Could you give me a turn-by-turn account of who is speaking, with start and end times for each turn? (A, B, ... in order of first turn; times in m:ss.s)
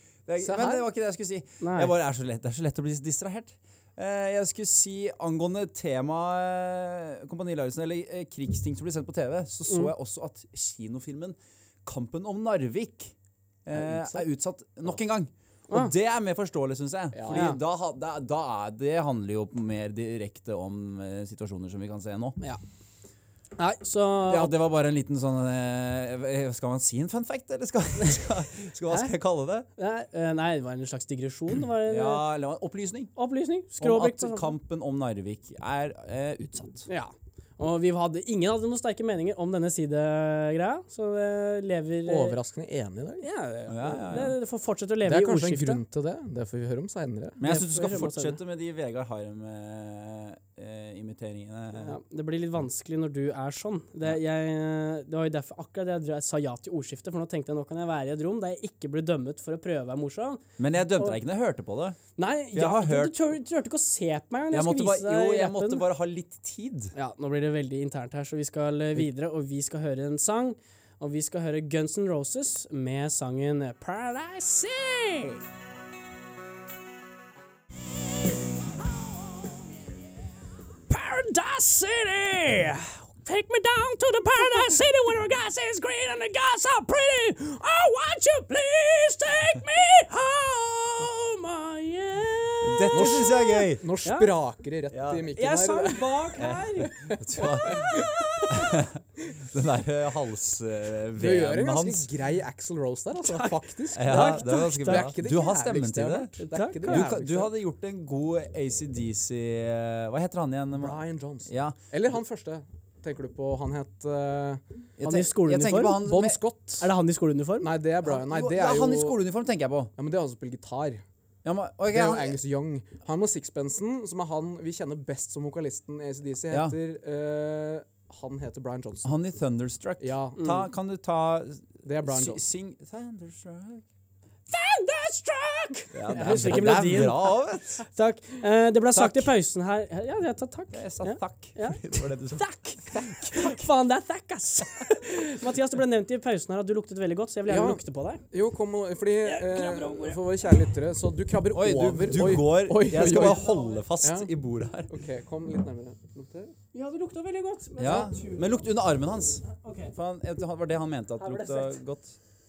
0:00.2-0:13.1 A
0:00.4-0:00.8 B
0:01.6-0:01.9 C
0:13.6-0:22.4 A
0:13.7-0:14.2 B
0:17.1-0:17.5 B
0:17.3-0:17.6 C
0:23.6-0:24.5 C
0:24.3-0:29.7 A
0:28.0-0:28.2 C
0:29.8-0:32.2 C
0:31.9-0:33.1 A
0:33.2-0:34.5 C
0:33.8-0:36.9 A
0:36.9-0:42.4 C
0:42.1-0:43.2 B
0:43.2-0:45.8 C
0:43.7-0:44.4 A
0:45.0-0:47.4 B
0:47.4-0:52.0 A
0:47.4-0:48.4 C
0:51.7-1:01.2 C
1:00.6-1:02.0 A
1:02.2-1:05.8 C
1:02.5-1:03.2 A
1:04.5-1:06.9 A
1:06.9-1:15.4 C
1:20.9-1:34.3 C
1:32.6-1:33.8 A
1:32.9-1:36.3 B
1:34.9-1:35.2 A
1:35.4-1:38.7 C
1:36.4-1:42.1 A
1:37.1-1:38.1 B
1:41.2-1:47.5 B
1:43.2-1:45.1 C
1:43.9-1:51.8 A
1:46.4-1:47.2 C
1:50.8-1:54.6 B
1:55.0-1:56.4 A
1:55.0-1:56.0 C
1:56.0-1:56.9 B
1:56.8-1:57.7 C
1:57.6-1:59.2 B
1:58.0-1:59.9 A
2:00.0-2:01.0 B
2:01.4-2:02.4 A
2:01.9-2:09.1 B
2:09.0-2:13.8 A
2:10.0-2:10.6 B
2:11.8-2:12.4 B
2:14.5-2:17.3 C
2:15.9-2:17.8 A
2:17.9-2:28.2 C
2:18.9-2:19.3 A
2:20.7-2:23.7 A
2:27.5-2:33.5 B
2:29.2-2:30.2 C
2:31.5-2:34.9 A
2:33.0-2:33.8 C
2:34.0-2:34.3 B
2:34.9-2:36.5 B
2:36.7-2:38.6 C
2:37.8-2:42.2 A
2:39.5-2:39.9 C
2:41.2-2:41.8 C